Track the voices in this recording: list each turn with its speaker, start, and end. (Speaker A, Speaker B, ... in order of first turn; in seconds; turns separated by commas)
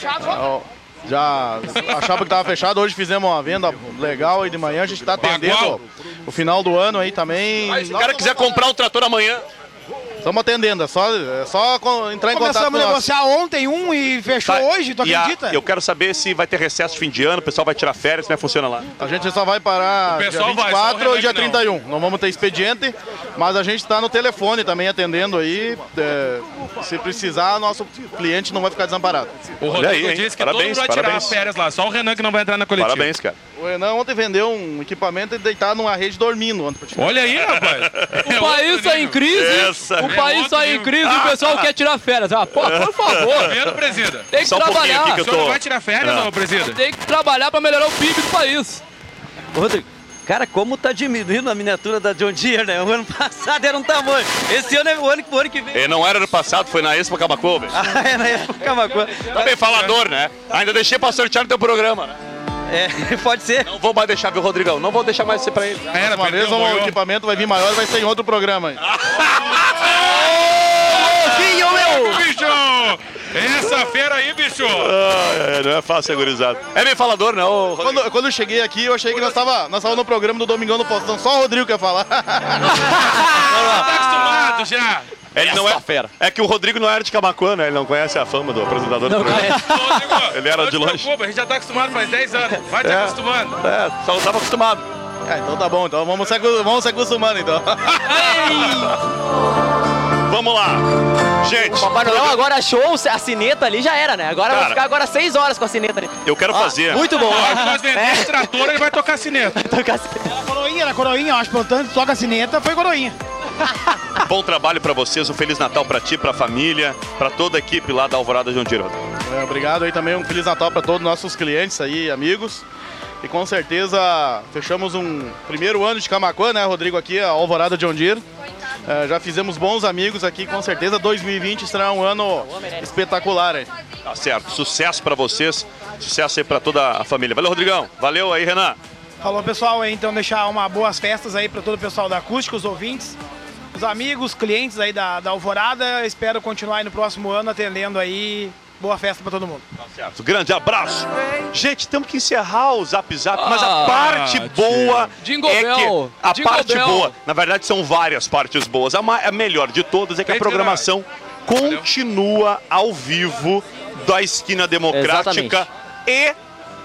Speaker A: 0.2-8.4, Speaker B: 5.2-5.8, Speaker C: 7.7-9.4, Speaker A: 10.2-13.1, Speaker D: 12.3-15.6, Speaker C: 14.4-18.9, Speaker A: 19.0-29.5, Speaker B: 20.1-21.6, Speaker B: 29.6-33.1, Speaker C: 29.7-31.4, Speaker C: 32.8-33.4, Speaker A: 33.6-37.4, Speaker B: 37.0-39.4, Speaker C: 37.4-38.2, Speaker E: 38.2-43.5, Speaker C: 39.3-40.2, Speaker B: 40.0-41.0, Speaker C: 41.0-41.6, Speaker C: 42.6-43.6, Speaker B: 43.4-44.3, Speaker E: 44.3-45.2, Speaker C: 44.4-46.3, Speaker B: 45.1-46.8, Speaker E: 46.7-48.8, Speaker F: 49.5-55.9, Speaker C: 55.7-57.8, Speaker F: 57.7-59.9, Speaker C: 59.3-62.1, Speaker F: 62.7-63.7, Speaker C: 63.6-65.9, Speaker B: 65.9-67.0, Speaker A: 66.0-68.8, Speaker C: 68.8-70.3, Speaker G: 70.9-72.0, Speaker B: 71.0-74.9, Speaker C: 71.0-71.5, Speaker C: 74.7-78.0, Speaker A: 77.8-82.9, Speaker G: 83.2-84.4, Speaker B: 83.5-85.1, Speaker C: 85.3-89.7, Speaker G: 85.3-86.1, Speaker G: 89.0-90.2, Speaker B: 89.6-93.6, Speaker C: 90.3-91.1, Speaker C: 92.8-94.8, Speaker A: 95.2-98.0, Speaker E: 98.1-98.9, Speaker C: 98.3-98.9, Speaker C: 100.3-100.9, Speaker C: 101.4-102.4, Speaker G: 101.6-108.7, Speaker C: 104.5-104.8, Speaker C: 106.2-107.1, Speaker B: 107.0-109.5, Speaker G: 109.5-110.2, Speaker D: 110.3-113.2, Speaker C: 114.2-119.0, Speaker A: 119.3-122.6, Speaker A: 123.2-128.2, Speaker A: 128.8-133.7, Speaker C: 134.0-138.8, Speaker D: 139.2-143.2, Speaker D: 143.7-149.6, Speaker C: 149.9-166.3, Speaker E: 153.3-157.1, Speaker B: 160.2-160.9, Speaker B: 161.6-161.8, Speaker G: 164.9-165.6